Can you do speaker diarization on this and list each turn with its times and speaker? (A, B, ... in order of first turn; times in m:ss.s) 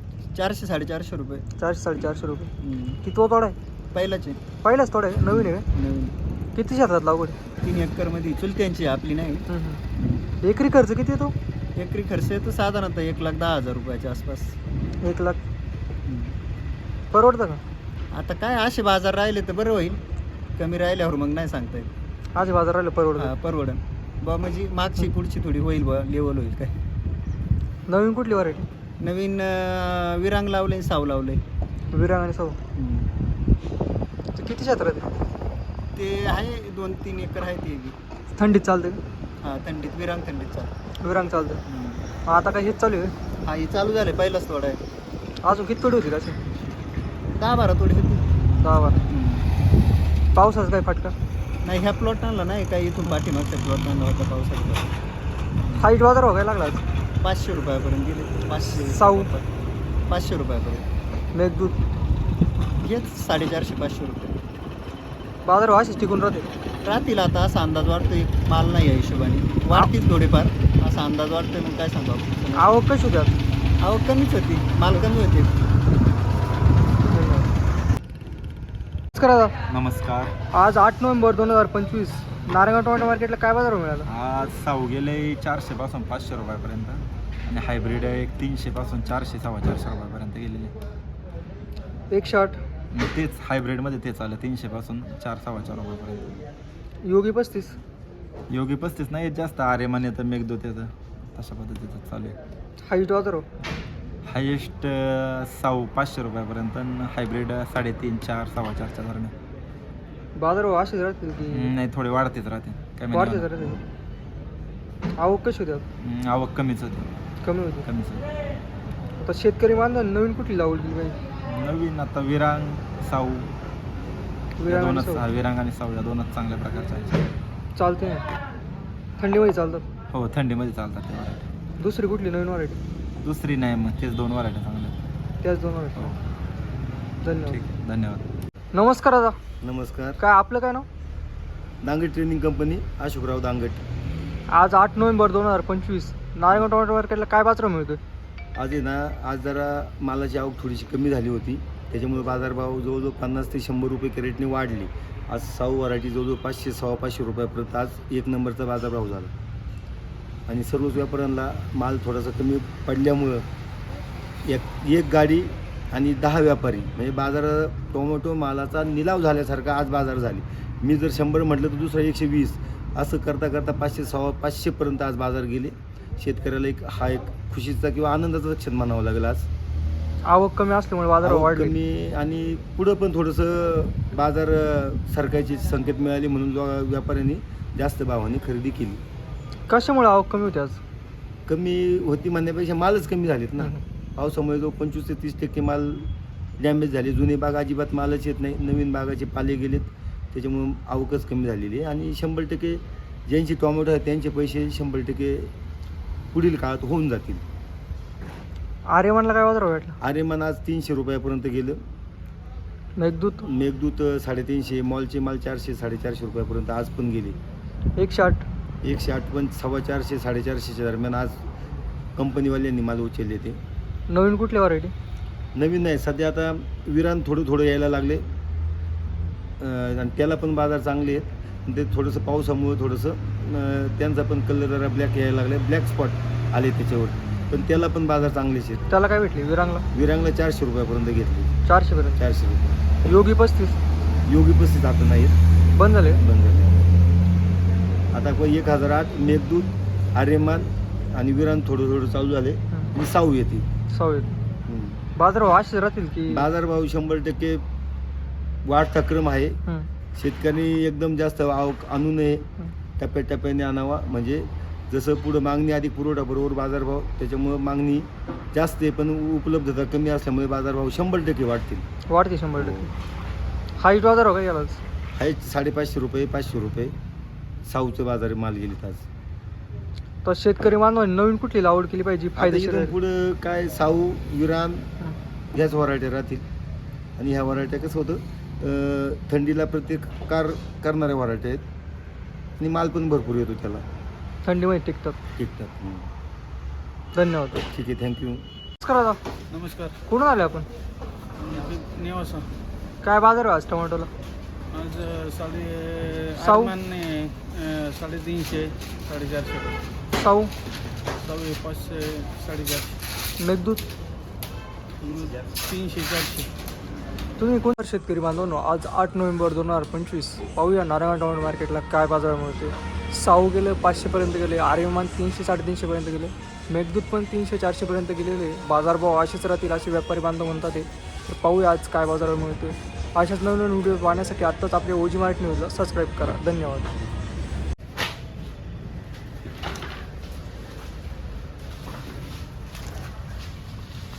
0:00.3-0:01.4 A
0:01.6-0:02.5 B
0:02.6-0:03.0 A
0:03.0-0:03.6 B
0:03.9-0:04.4 A
0:04.6-0:05.7 B
0:05.3-0:06.2 A
0:06.5-0:07.4 B
0:07.6-0:09.5 A
0:09.5-0:09.8 B
0:10.4-0:11.3 B
0:11.8-0:14.5 A
0:15.0-0:15.4 B
0:16.0-0:16.4 A
0:17.1-0:17.6 B
0:18.1-0:20.0 A
0:20.6-0:21.9 A
0:22.3-0:23.3 B
0:23.2-0:26.8 A
0:27.9-0:28.7 B
0:29.0-0:31.4 A
0:31.9-0:32.6 B
0:32.8-0:33.1 A
0:34.3-0:35.1 B
0:36.0-0:38.0 A
0:38.3-0:39.0 B
0:39.4-0:40.7 A
0:41.0-0:41.6 B
0:41.7-0:42.1 A
0:42.2-0:43.1 B
0:43.4-0:44.8 A
0:45.4-0:46.4 B
0:47.4-0:48.3 A
0:48.6-0:49.0 B
0:49.1-0:49.4 A
0:50.3-0:51.1 B
0:51.6-0:55.0 A
0:55.8-0:56.8 B
0:57.2-0:59.5 A
0:58.6-0:59.3 B
1:00.1-1:00.9 A
1:01.3-1:01.8 B
1:02.8-1:04.4 A
1:05.4-1:06.5 B
1:06.8-1:12.8 A
1:12.6-1:13.4 B
1:13.8-1:15.6 A
1:17.1-1:17.5 B
1:19.2-1:19.5 B
1:19.7-1:20.3 C
1:20.5-1:24.1 B
1:24.1-1:30.7 C
1:32.1-1:32.6 B
1:32.9-1:36.4 C
1:37.0-1:37.8 B
1:38.5-1:42.4 C
1:42.8-1:43.5 B
1:44.2-1:49.3 C
1:50.3-1:51.7 B
1:51.6-1:53.8 C
1:53.1-1:53.8 B
1:55.2-1:55.8 B
1:56.0-1:57.1 C
1:57.4-1:57.9 B
1:57.9-1:58.3 C
1:59.2-2:01.2 B
2:01.5-2:03.5 C
2:04.6-2:05.2 B
2:04.6-2:07.2 C
2:07.8-2:08.2 B
2:09.2-2:09.8 B
2:10.1-2:11.4 C
2:11.8-2:12.8 B
2:13.2-2:14.9 C
2:15.4-2:16.2 B
2:17.2-2:17.6 B
2:17.5-2:18.2 C
2:18.7-2:19.3 B
2:19.6-2:20.2 D
2:20.2-2:20.9 B
2:21.8-2:23.8 D
2:24.5-2:28.0 B
2:28.6-2:39.3 D
2:40.5-2:43.5 D
2:44.4-2:59.5 D
3:00.2-3:01.8 B
3:01.2-3:09.0 D
3:09.7-3:10.8 B
3:11.5-3:25.5 D
3:26.3-3:27.4 D
3:28.9-3:30.0 B
3:30.0-3:31.8 D
3:33.0-3:33.4 B
3:33.4-3:37.4 D
3:38.0-3:38.4 B
3:38.8-3:41.5 D
3:42.2-3:43.6 D
3:44.1-3:44.9 B
3:45.6-3:48.2 D
3:49.6-3:58.8 D
3:58.9-3:59.8 B
3:59.9-4:01.5 D
4:01.7-4:02.2 B
4:02.2-4:02.8 D
4:03.0-4:03.8 B
4:04.2-4:05.4 D
4:05.8-4:06.2 B
4:06.1-4:06.8 D
4:08.1-4:13.7 D
4:13.9-4:14.3 B
4:14.7-4:15.0 D
4:15.2-4:16.5 B
4:16.3-4:17.6 D
4:18.6-4:19.6 D
4:20.2-4:22.5 D
4:23.0-4:31.8 D
4:32.1-4:32.9 B
4:32.6-4:32.9 D
4:33.8-4:34.8 B
4:35.2-4:36.9 D
4:37.6-4:39.0 D
4:40.2-4:42.9 B
4:42.4-4:44.9 D
4:45.5-4:46.4 D
4:47.2-4:51.6 D
4:52.6-4:53.8 D
4:54.4-4:55.2 B
4:55.4-4:56.1 D
4:57.1-4:57.6 B
4:57.6-4:58.4 D
4:58.8-4:59.2 B
4:59.5-5:00.0 E
5:00.1-5:00.7 B
5:01.4-5:02.4 E
5:03.0-5:04.1 B
5:04.7-5:09.8 E
5:06.4-5:06.8 B
5:10.1-5:10.5 B
5:11.2-5:13.0 E
5:13.4-5:13.8 B
5:15.0-5:16.5 E
5:17.4-5:36.9 B